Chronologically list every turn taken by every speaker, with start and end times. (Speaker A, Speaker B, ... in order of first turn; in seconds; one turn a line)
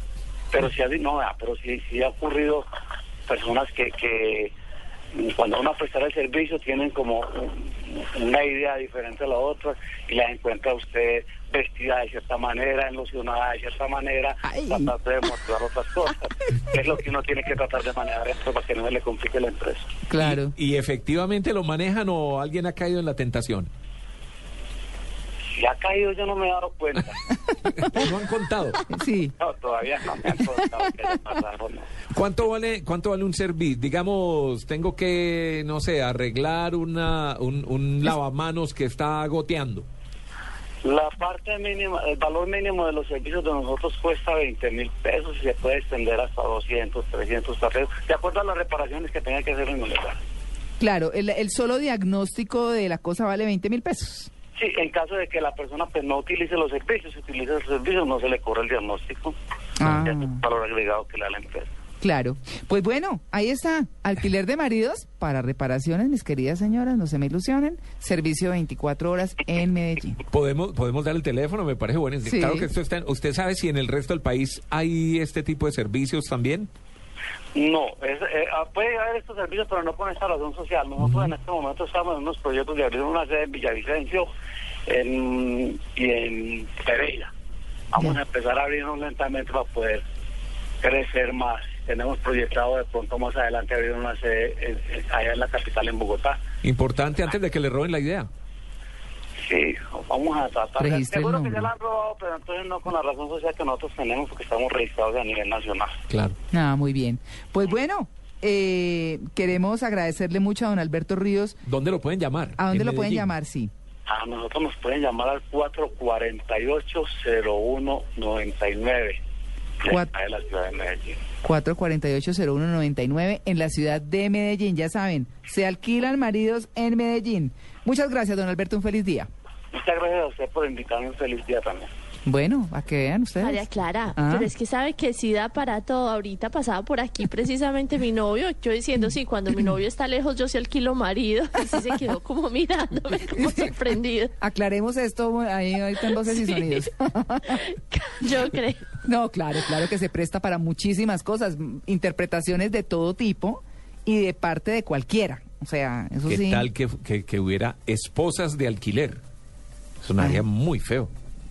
Speaker A: 0.5-2.6
Speaker A: 3.3-4.5
Speaker A: 5.1-19.9
Speaker B: 14.4-14.9
Speaker B: 20.1-20.5
Speaker C: 20.2-23.7
Speaker A: 25.5-27.2
Speaker B: 27.8-28.1
Speaker C: 27.8-28.8
Speaker B: 28.9-29.3
Speaker A: 29.4-31.9
Speaker B: 30.4-30.8
Speaker C: 32.1-39.9
Speaker A: 40.8-50.2
Speaker B: 50.8-54.3
Speaker A: 54.6-59.4
Speaker B: 59.8-60.4
Speaker A: 60.0-61.7
Speaker B: 62.0-70.2
Speaker C: 70.3-76.7
Speaker B: 72.2-72.7
Speaker A: 77.5-84.3
Speaker A: 84.9-87.3
Speaker A: 87.9-90.0
Speaker A: 90.8-96.4
Speaker C: 96.6-98.3
Speaker A: 99.4-106.0
Speaker B: 100.8-101.7
Speaker C: 106.1-106.4
Speaker B: 106.5-111.6
Speaker C: 111.6-113.3
Speaker B: 112.6-113.7
Speaker A: 114.1-119.2
Speaker A: 119.8-121.2
Speaker B: 121.4-129.3
Speaker A: 129.7-131.9
Speaker B: 132.2-134.5
Speaker D: 133.4-144.3
Speaker B: 144.4-147.6
Speaker D: 146.3-146.6
Speaker D: 147.5-148.9
Speaker B: 149.0-156.7
Speaker C: 156.2-159.2
Speaker C: 160.0-161.1
Speaker B: 160.2-160.4